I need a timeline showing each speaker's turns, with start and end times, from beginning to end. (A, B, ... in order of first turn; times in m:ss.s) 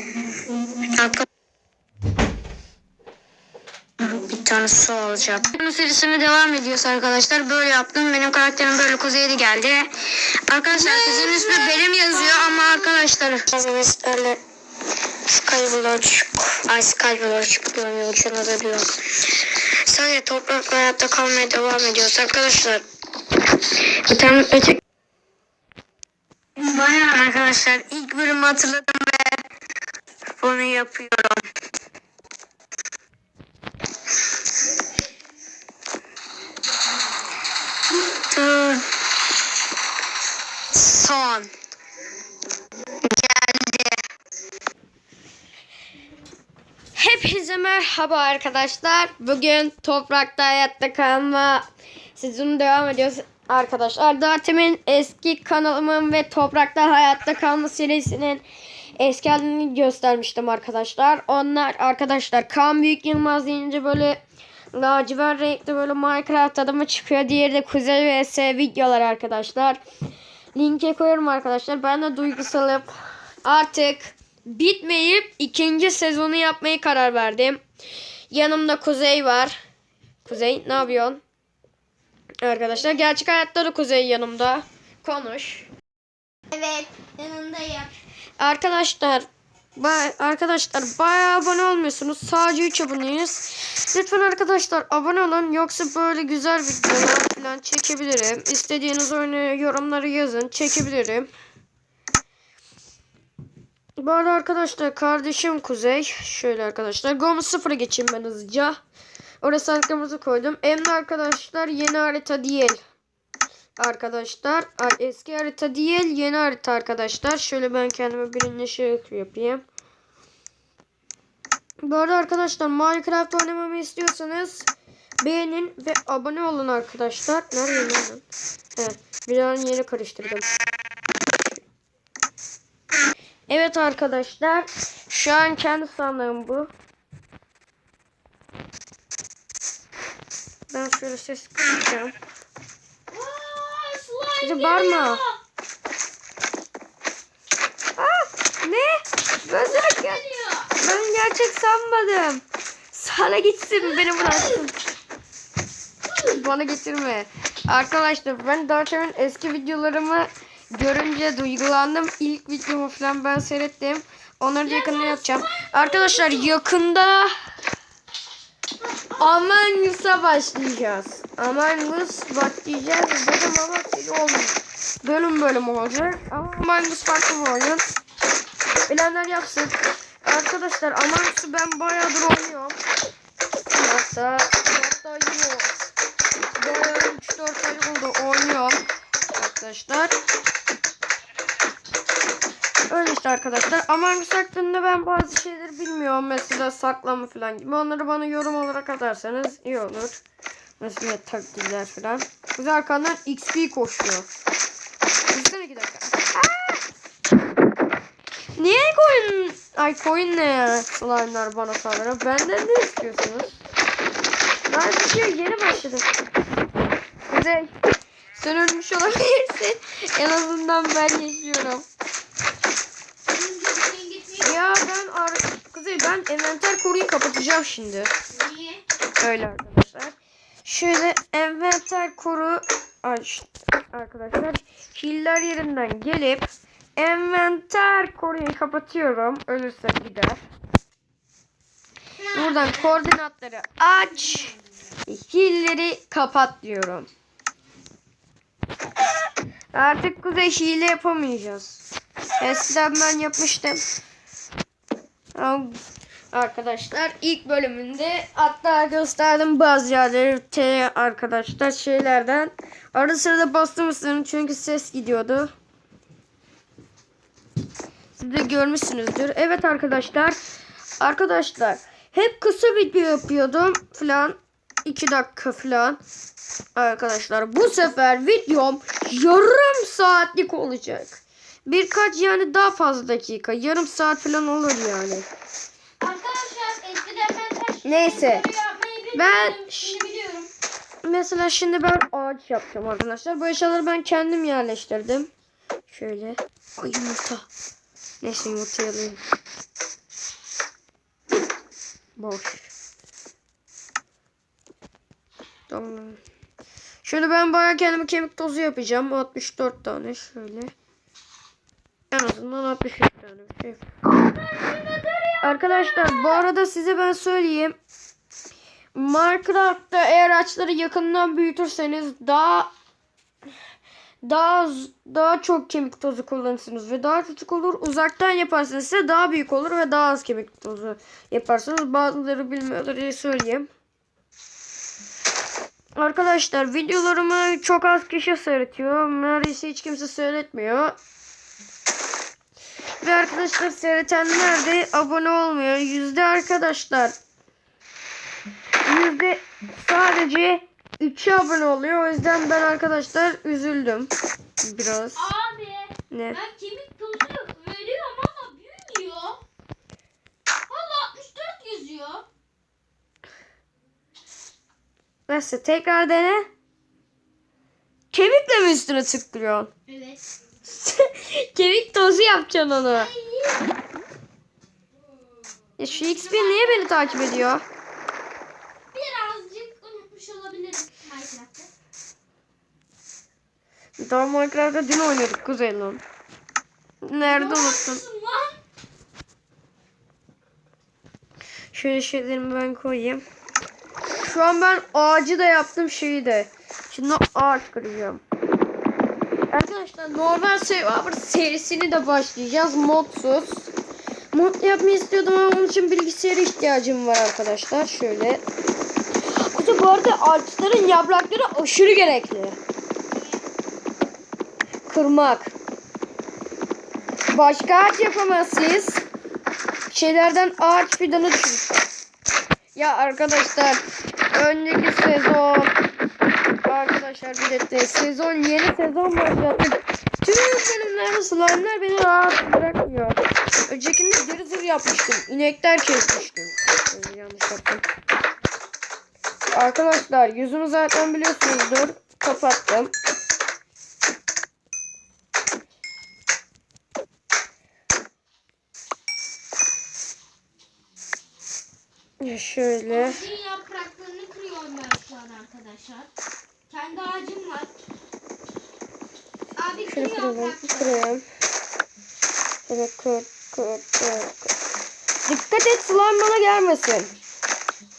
0:00.9-0:01.2 A
0:04.1-0:09.9 A
0:10.5-0:14.4 A
0:10.8-0:12.9 B
0:15.3-0:18.9 A
0:19.9-0:22.8 A
0:24.0-0:24.8 A
0:26.6-0:29.4 A
0:30.4-0:31.4 A
0:38.1-0:38.8 A
0:40.7-0:41.5 A
0:43.1-0:44.0 A
0:47.0-0:51.7 C
0:52.2-0:58.4 C
0:59.0-1:04.2 C
1:04.7-1:09.8 C
1:10.6-1:12.9 C
1:13.4-1:17.6 C
1:18.3-1:19.6 C
1:20.2-1:21.2 C
1:22.4-1:25.7 C
1:26.5-1:27.9 B
1:28.4-1:41.3 C
1:44.0-1:48.8 C
1:49.4-1:52.8 C
1:53.8-1:59.6 C
2:01.8-2:04.7 C
2:05.2-2:10.5 C
2:13.5-2:16.7 C
2:20.7-2:22.1 C
2:23.1-2:25.4 B
2:24.4-2:25.2 C
2:28.0-2:30.2 C
2:29.5-2:30.7 B
2:30.8-2:34.7 C
2:33.8-2:34.7 B
2:36.1-2:36.4 B
2:36.3-2:47.3 C
2:44.6-2:46.6 B
2:48.8-2:49.4 B
2:49.2-2:57.8 C
2:58.9-3:02.8 C
3:03.7-3:05.7 C
3:06.6-3:08.8 C
3:09.3-3:10.1 C
3:12.9-3:20.2 C
3:20.8-3:24.3 C
3:25.3-3:26.8 C
3:28.6-3:33.6 C
3:34.7-3:36.1 C
3:37.3-3:37.7 C
3:38.4-3:41.8 C
3:43.3-3:44.6 B
3:44.4-3:48.1 C
3:48.3-3:48.8 B
3:49.2-4:00.4 C
4:02.2-4:03.0 B
4:02.3-4:04.5 C
4:04.2-4:04.6 B
4:05.1-4:07.1 C
4:09.7-4:11.8 C
4:12.4-4:13.8 C
4:15.4-4:15.8 C
4:16.3-4:25.5 C
4:28.2-4:30.4 C
4:31.0-4:36.0 C
4:36.8-4:45.3 C
4:46.0-4:50.5 B
4:47.8-4:48.5 C
4:49.1-4:50.0 C
4:51.0-4:55.3 C
4:55.9-4:57.5 C
4:58.2-4:59.2 C
5:02.2-5:02.7 C
5:05.7-5:06.2 C
5:07.0-5:10.7 C
5:12.1-5:13.8 C
5:14.1-5:16.5 B
5:15.4-5:17.8 C
5:18.9-5:22.7 C
5:24.2-5:33.7 C
5:36.0-5:41.0 C
5:43.0-5:47.2 C
5:48.8-5:55.3 C
5:55.2-5:59.4 B
5:56.1-5:56.4 C
6:00.7-6:02.2 B
6:05.3-6:06.5 C
6:08.1-6:09.7 C
6:09.9-6:10.2 B
6:10.6-6:13.1 C
6:12.9-6:13.7 B
6:15.8-6:17.6 C
6:15.9-6:17.3 B
6:18.9-6:21.7 B
6:24.0-6:26.0 C
6:27.0-6:28.0 C
6:27.2-6:28.6 B
6:31.7-6:33.2 C
6:34.2-6:38.2 C
6:39.5-6:43.7 C
6:44.3-6:48.4 C
6:49.5-6:52.6 C
6:53.1-6:53.4 B
6:54.9-6:55.5 C
6:57.3-6:59.0 C
6:59.9-7:01.8 C
7:02.8-7:05.7 C
7:06.6-7:17.8 C
7:19.5-7:22.9 C
7:32.2-7:33.2 C
7:32.9-7:36.1 B
7:36.7-7:37.8 B
7:39.6-7:41.0 B
7:39.9-7:41.3 C
7:42.7-7:44.5 C
7:45.3-7:47.1 C